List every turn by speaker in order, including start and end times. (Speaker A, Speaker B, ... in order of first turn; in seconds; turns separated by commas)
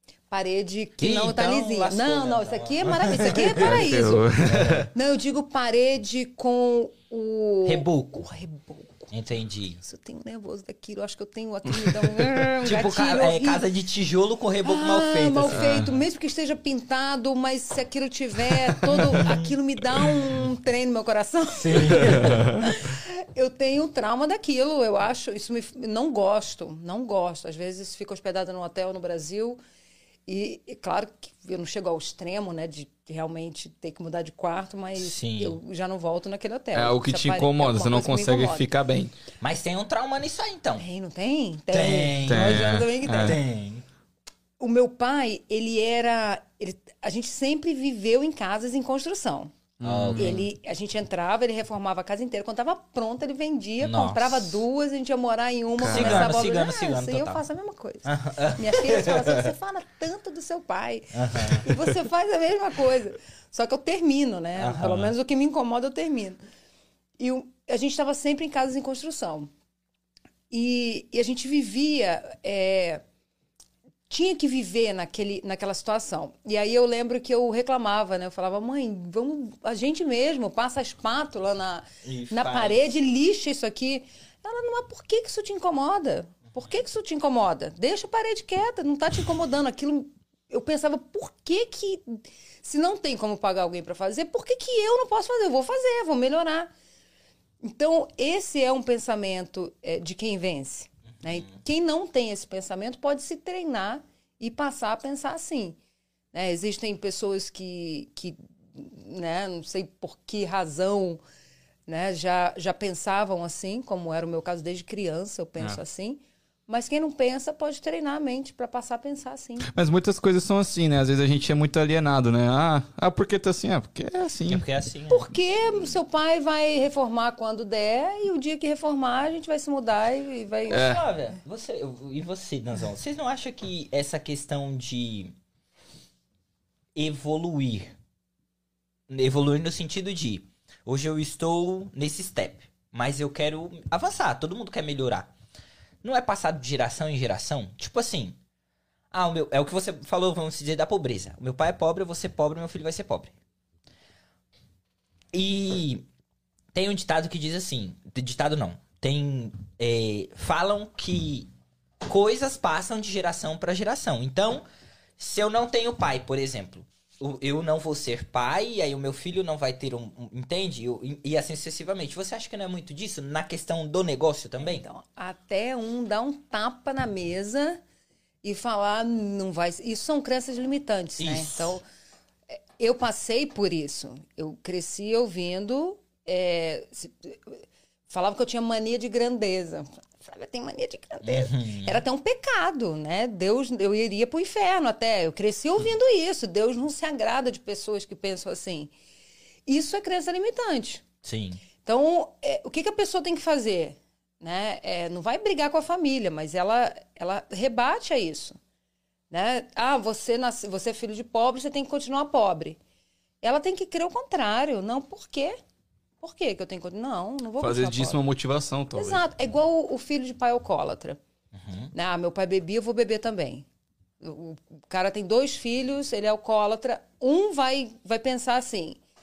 Speaker A: 0.3-4.3, Speaker B: 1.0-3.8, Speaker C: 3.6-4.9, Speaker B: 4.4-4.9, Speaker A: 4.9-9.1, Speaker B: 7.6-8.2, Speaker B: 9.1-9.8, Speaker A: 9.8-13.6, Speaker B: 12.6-15.9, Speaker A: 14.6-29.6, Speaker C: 15.5-15.9, Speaker B: 18.9-20.2, Speaker B: 21.6-22.5, Speaker C: 22.2-22.6, Speaker A: 30.3-38.7, Speaker B: 35.0-35.6, Speaker C: 36.7-39.1, Speaker B: 39.4-40.8, Speaker A: 40.8-43.4, Speaker B: 41.7-43.8, Speaker C: 42.2-43.4, Speaker A: 44.6-49.5, Speaker C: 49.8-50.3, Speaker B: 49.8-50.5, Speaker A: 50.1-66.4, Speaker B: 53.8-54.6, Speaker C: 55.8-56.4, Speaker B: 55.9-57.4, Speaker B: 58.0-59.5, Speaker B: 61.1-61.7, Speaker B: 64.6-65.1, Speaker A: 67.2-69.5, Speaker A: 70.5-73.0, Speaker A: 74.1-96.7, Speaker B: 82.0-82.9, Speaker A: 97.6-105.8, Speaker A: 106.3-111.2, Speaker A: 111.9-119.7, Speaker C: 119.7-124.6, Speaker B: 124.5-125.3, Speaker A: 125.1-131.0, Speaker B: 130.7-135.3, Speaker C: 130.7-131.0, Speaker B: 136.9-137.9, Speaker B: 139.1-145.3, Speaker B: 146.0-148.3, Speaker B: 149.1-153.3, Speaker B: 155.3-156.1, Speaker B: 156.7-161.5, Speaker B: 162.1-164.6, Speaker B: 165.2-174.8, Speaker A: 174.6-177.8, Speaker A: 178.4-181.8, Speaker B: 181.2-181.8, Speaker A: 182.5-198.9, Speaker B: 191.2-192.0, Speaker A: 199.7-201.0, Speaker B: 201.2-201.6, Speaker A: 201.8-208.6, Speaker A: 209.3-212.8, Speaker A: 213.4-215.6, Speaker A: 216.2-218.2, Speaker C: 217.6-219.2, Speaker A: 218.9-221.2, Speaker B: 221.5-221.9, Speaker A: 221.9-223.6, Speaker A: 224.2-229.0